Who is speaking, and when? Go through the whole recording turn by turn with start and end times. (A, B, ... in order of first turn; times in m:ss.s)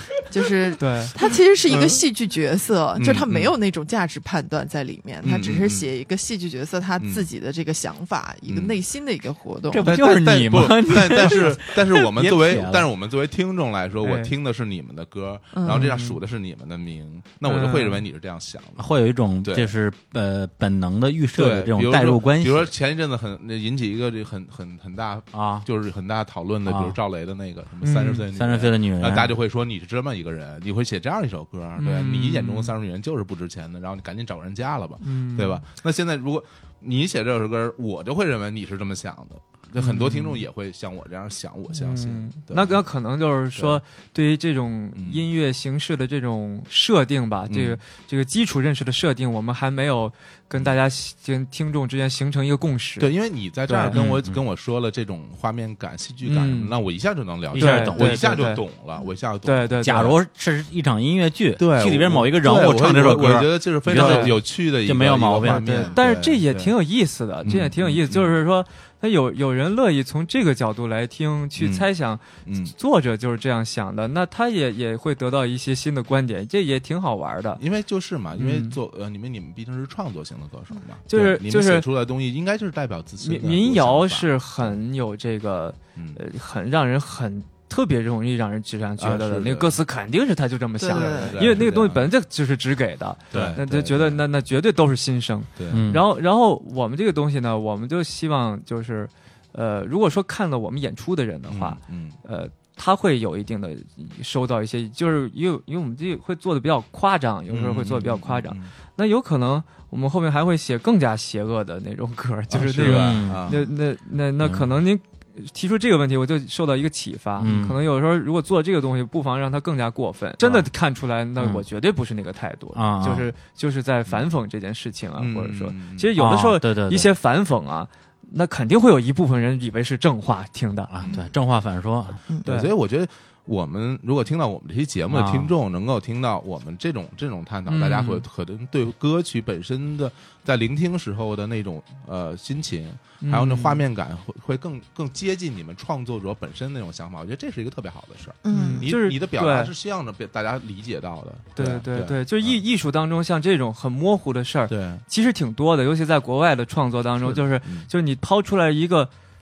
0:00.3-0:10.0 A
0:00.8-0:01.1 B
0:01.7-0:02.0 C
0:03.0-0:03.5 C
0:05.2-0:05.9 C
0:07.0-0:07.3 C
0:08.5-0:08.8 C
0:09.7-0:12.9 D
0:09.8-0:18.9 C
0:14.0-0:14.3 B
0:15.5-0:16.0 A
0:15.7-0:16.1 B
0:17.4-0:18.0 B
0:18.8-0:22.7 D
0:19.4-0:19.7 C
0:21.3-0:42.8 C
0:25.3-0:25.6 D
0:26.6-0:27.0 D
0:27.8-0:28.2 B
0:28.3-0:29.3 D
0:31.8-0:32.7 B
0:35.0-0:35.6 B
0:39.8-0:40.4 B
0:41.7-0:53.1 B
0:44.9-0:45.2 C
0:47.5-0:47.8 C
0:53.0-1:00.1 C
0:53.7-0:54.0 B
0:53.9-0:54.4 D
0:56.2-0:56.7 B
0:57.5-0:58.4 D
0:57.6-0:58.6 B
0:59.4-1:00.1 B
0:59.8-1:06.0 D
1:01.6-1:06.7 C
1:03.9-1:04.3 B
1:05.6-1:06.0 A
1:05.9-1:17.6 B
1:07.4-1:08.4 C
1:11.6-1:11.8 C
1:12.4-1:12.7 C
1:17.6-1:24.8 C
1:18.4-1:18.8 B
1:21.1-1:21.8 B
1:23.2-2:10.9 B
1:29.0-1:29.8 C
1:30.8-1:31.4 A
1:30.9-1:32.1 C
1:33.3-1:34.2 C
1:35.6-1:35.8 C
1:35.7-1:36.0 D
1:41.5-1:42.2 C
1:47.5-1:48.7 C
1:52.5-1:53.6 C
1:52.8-1:53.5 D
1:57.4-1:57.8 D
2:02.7-2:03.3 D
2:05.2-2:06.1 C
2:06.2-2:07.1 D
2:10.9-2:12.2 D
2:12.4-2:32.6 C
2:12.4-2:12.7 B
2:15.1-2:15.5 D
2:17.7-2:18.2 B
2:23.2-2:23.8 B
2:28.4-2:28.9 A
2:28.5-2:29.7 B
2:31.6-2:39.1 B
2:34.7-2:35.0 C
2:37.2-2:37.9 C